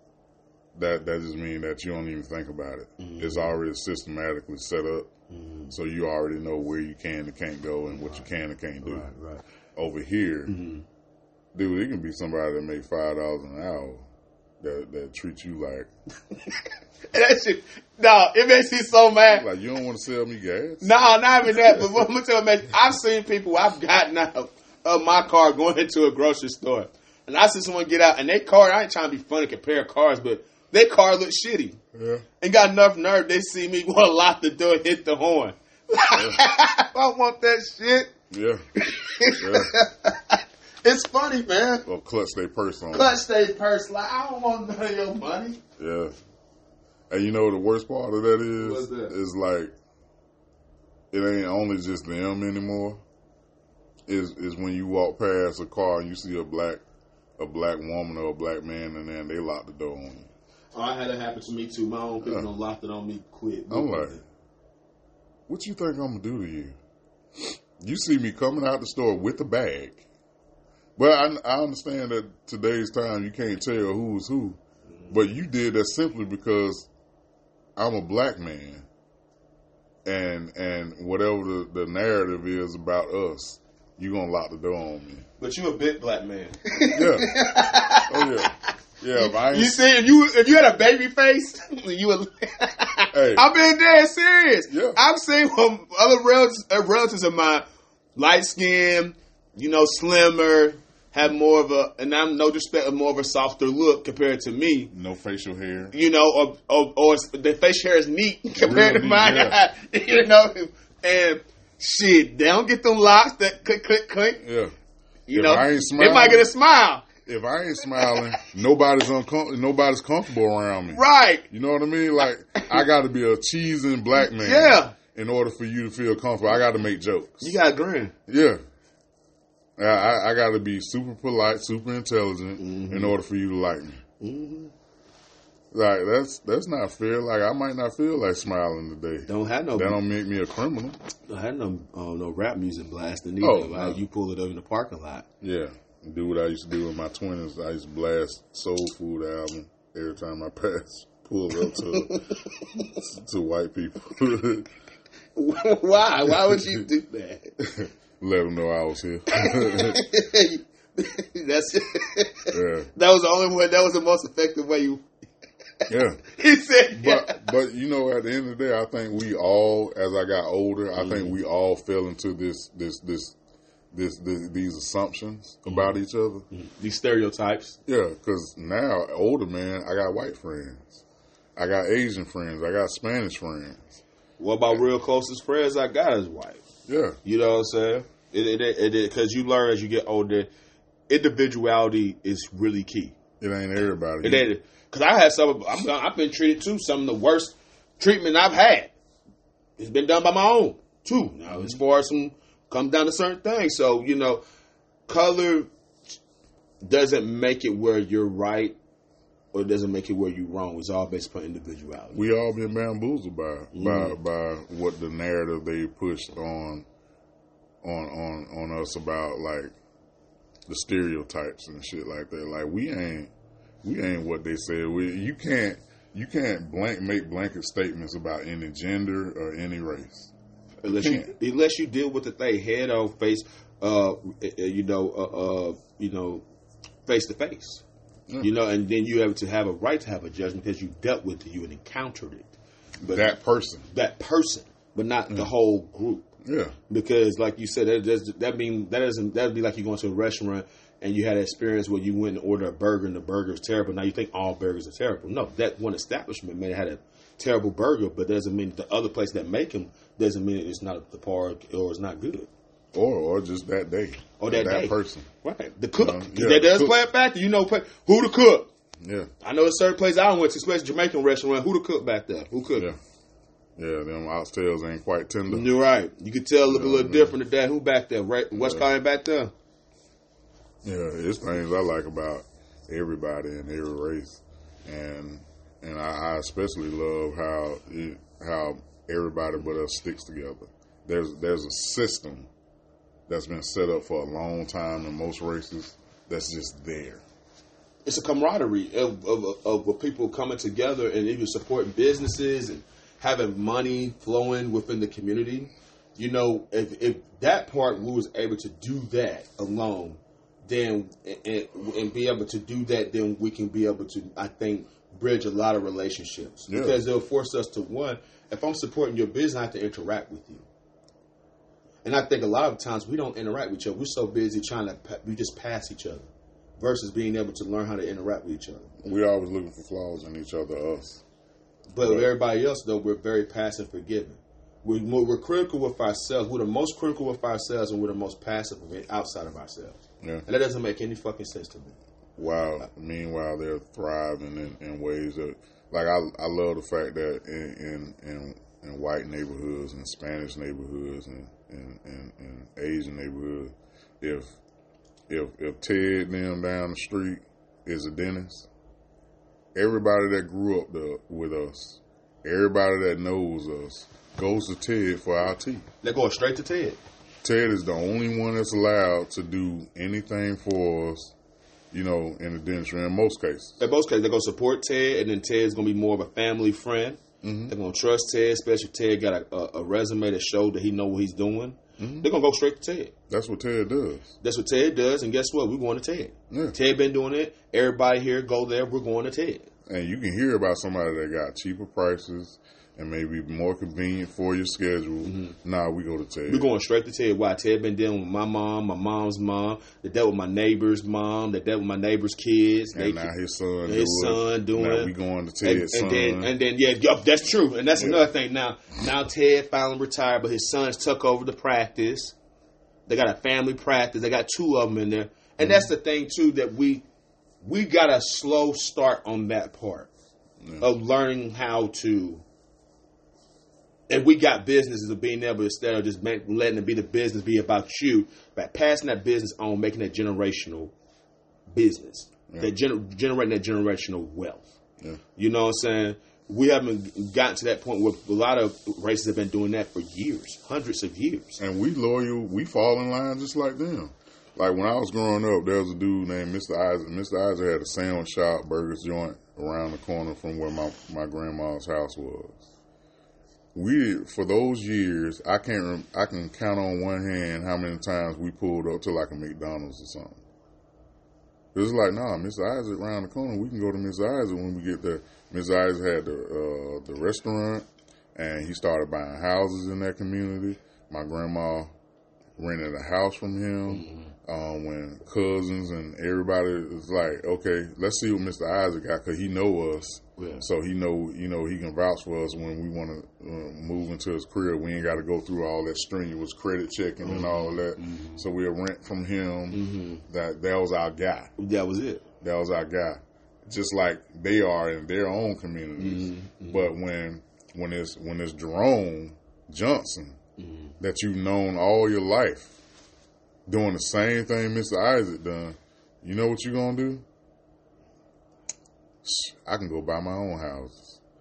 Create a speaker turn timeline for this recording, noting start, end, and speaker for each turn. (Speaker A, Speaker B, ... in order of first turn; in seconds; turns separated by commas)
Speaker A: 0.7-5.1, Speaker B: 3.0-3.5, Speaker B: 5.3-5.7, Speaker A: 5.7-9.1, Speaker B: 7.9-8.2, Speaker B: 8.8-9.4, Speaker A: 9.8-10.6, Speaker B: 10.5-10.8, Speaker A: 11.5-14.1, Speaker A: 14.6-15.9, Speaker B: 16.4-19.5, Speaker A: 19.3-22.0, Speaker B: 20.8-31.8, Speaker A: 31.9-32.2, Speaker B: 32.4-38.1, Speaker A: 38.3-38.6, Speaker B: 38.8-41.9, Speaker A: 39.3-39.7, Speaker A: 41.9-43.1, Speaker B: 42.9-45.6, Speaker A: 45.8-46.1, Speaker A: 47.1-49.7, Speaker B: 48.6-49.1, Speaker A: 51.1-53.0, Speaker A: 54.1-56.8, Speaker A: 57.4-60.3, Speaker B: 60.7-64.2, Speaker A: 62.2-62.5, Speaker A: 63.7-64.2, Speaker A: 65.5-66.7, Speaker A: 67.4-70.0, Speaker A: 71.0-76.9, Speaker A: 77.8-78.8, Speaker A: 80.0-85.3, Speaker B: 85.4-97.6, Speaker A: 86.9-87.4, Speaker A: 88.1-89.8, Speaker A: 93.1-93.5, Speaker A: 94.7-95.0, Speaker B: 98.2-104.9, Speaker A: 104.9-105.9, Speaker B: 105.9-114.4, Speaker A: 108.5-109.6, Speaker A: 114.4-114.7, Speaker B: 115.3-117.1, Speaker A: 115.3-116.5, Speaker A: 117.2-127.6, Speaker B: 118.0-118.4, Speaker B: 120.9-121.5, Speaker B: 122.6-122.8, Speaker B: 124.2-124.9, Speaker B: 127.4-128.1, Speaker A: 128.3-128.6, Speaker A: 129.8-134.0, Speaker B: 132.6-133.2, Speaker B: 134.2-134.7, Speaker A: 135.7-141.0, Speaker B: 139.2-140.0, Speaker B: 141.3-145.3, Speaker A: 143.4-144.0, Speaker A: 145.4-154.7, Speaker B: 151.7-153.0, Speaker B: 155.3-157.6, Speaker A: 156.4-156.8, Speaker A: 157.6-160.0, Speaker B: 159.3-165.0, Speaker A: 162.5-162.9, Speaker A: 165.9-166.2, Speaker B: 166.2-167.5, Speaker A: 166.9-173.3, Speaker B: 171.0-171.3, Speaker A: 173.9-176.4, Speaker B: 175.7-176.0, Speaker B: 176.5-177.8, Speaker A: 177.8-181.0, Speaker A: 181.6-184.0, Speaker B: 184.4-186.6, Speaker A: 186.9-187.2, Speaker B: 187.2-190.5, Speaker B: 191.1-193.1, Speaker A: 193.4-194.5, Speaker B: 194.2-198.9, Speaker B: 199.8-204.4, Speaker B: 205.1-205.7, Speaker B: 206.8-208.8, Speaker B: 209.5-212.2, Speaker A: 212.1-216.8, Speaker B: 213.7-214.2, Speaker A: 217.8-219.7, Speaker A: 220.7-223.3, Speaker A: 223.8-230.3, Speaker B: 230.8-236.4, Speaker A: 230.9-231.3, Speaker B: 237.1-237.8, Speaker B: 238.4-243.3, Speaker A: 243.0-243.8, Speaker B: 243.9-246.3, Speaker A: 246.4-246.7, Speaker B: 246.9-262.5, Speaker A: 262.9-265.3, Speaker B: 264.4-268.7, Speaker A: 266.0-267.0, Speaker A: 269.0-269.3, Speaker B: 269.4-272.9, Speaker A: 273.8-275.7, Speaker B: 275.5-279.5, Speaker A: 276.7-277.3, Speaker A: 278.5-278.9, Speaker A: 280.8-292.5, Speaker A: 293.3-297.2, Speaker B: 298.1-320.6, Speaker A: 316.7-317.0, Speaker B: 322.0-329.0, Speaker A: 329.0-331.2, Speaker B: 331.9-342.0, Speaker A: 332.0-332.3, Speaker A: 342.4-354.6, Speaker A: 355.3-358.7, Speaker A: 359.7-365.9, Speaker B: 366.0-367.0, Speaker A: 367.4-371.3, Speaker A: 371.9-373.8, Speaker B: 373.8-383.1, Speaker A: 377.4-377.7, Speaker A: 382.0-382.3, Speaker A: 383.3-384.3, Speaker B: 384.4-389.7, Speaker A: 386.5-386.7, Speaker A: 389.9-396.7, Speaker B: 395.2-395.6, Speaker B: 396.5-403.3, Speaker A: 402.9-406.5, Speaker B: 403.9-405.1, Speaker B: 405.6-412.3, Speaker A: 407.9-408.2, Speaker B: 413.1-417.0, Speaker A: 415.6-415.9, Speaker B: 417.6-420.1, Speaker A: 420.6-420.9, Speaker B: 420.8-422.4, Speaker B: 424.1-430.9, Speaker B: 431.7-434.6, Speaker B: 435.4-441.6, Speaker A: 441.6-452.6, Speaker A: 453.7-460.4, Speaker A: 461.7-471.9, Speaker A: 472.6-491.5, Speaker B: 473.9-474.3, Speaker B: 480.4-480.6, Speaker B: 487.2-488.4, Speaker B: 489.7-490.2, Speaker B: 491.6-492.2, Speaker A: 492.4-500.4, Speaker B: 496.0-496.9, Speaker B: 500.6-500.9, Speaker A: 501.0-502.8, Speaker A: 503.7-507.2, Speaker A: 509.2-511.2